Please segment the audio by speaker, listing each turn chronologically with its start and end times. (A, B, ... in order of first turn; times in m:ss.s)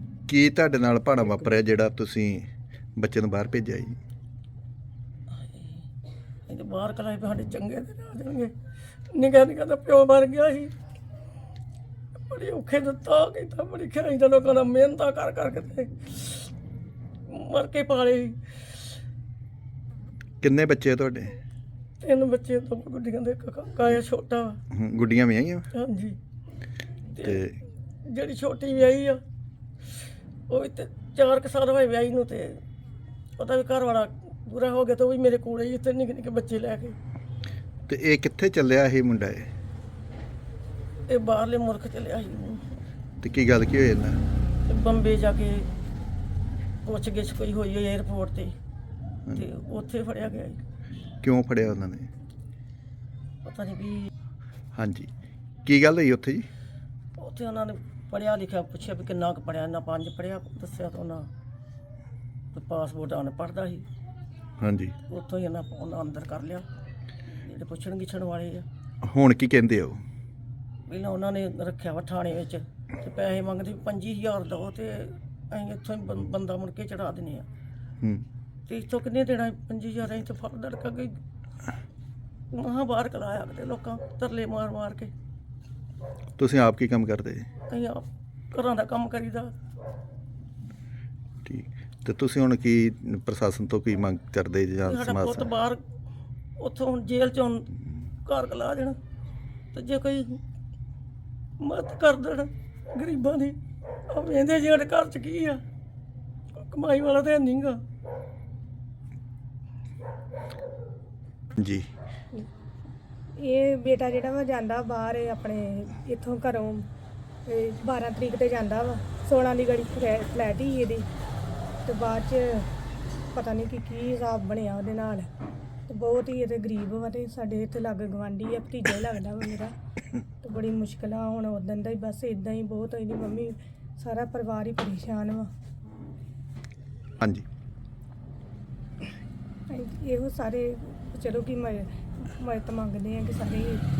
0:00.3-0:04.0 A
0:05.3-0:05.8 B
0:06.5-0:08.5 B
0:09.1-0:10.7 B
0:12.3-0:16.5 B
0:17.3-0:18.4 B
0:20.4-0:21.4 A
0:22.0-0:24.6 B
0:24.7-0:25.6 A
0:25.7-0:26.2 B
0:27.1-0:27.4 B
0:27.2-0:27.5 A
0:28.1-0:29.2 B
0:30.5-0:32.6 B
0:33.4-0:37.0 B
0:37.9-0:39.5 A
0:41.1-0:42.8 B
0:43.2-0:44.2 A
0:44.7-0:45.7 B
0:46.8-0:48.5 B
0:49.3-0:50.6 B
0:51.2-0:52.1 A
0:53.4-0:54.1 B
0:54.7-0:55.1 A
0:55.6-0:56.5 A
0:57.2-1:01.3 B
1:02.5-1:03.8 B
1:04.6-1:04.9 A
1:05.1-1:06.7 B
1:07.4-1:08.6 B
1:09.0-1:10.0 A
1:10.9-1:17.5 B
1:18.7-1:21.2 B
1:22.5-1:25.1 B
1:26.4-1:27.4 A
1:27.7-1:29.5 B
1:31.4-1:35.5 A
1:34.8-1:35.8 B
1:36.6-1:37.7 B
1:38.2-1:39.0 B
1:39.7-1:40.4 B
1:41.6-1:43.6 B
1:44.1-1:45.6 B
1:46.5-1:47.8 B
1:51.6-1:51.9 A
1:53.4-1:56.9 C
1:57.4-2:01.1 C
2:01.8-2:02.7 C
2:03.3-2:05.3 C
2:05.9-2:09.7 C
2:10.4-2:15.5 C
2:19.7-2:23.8 C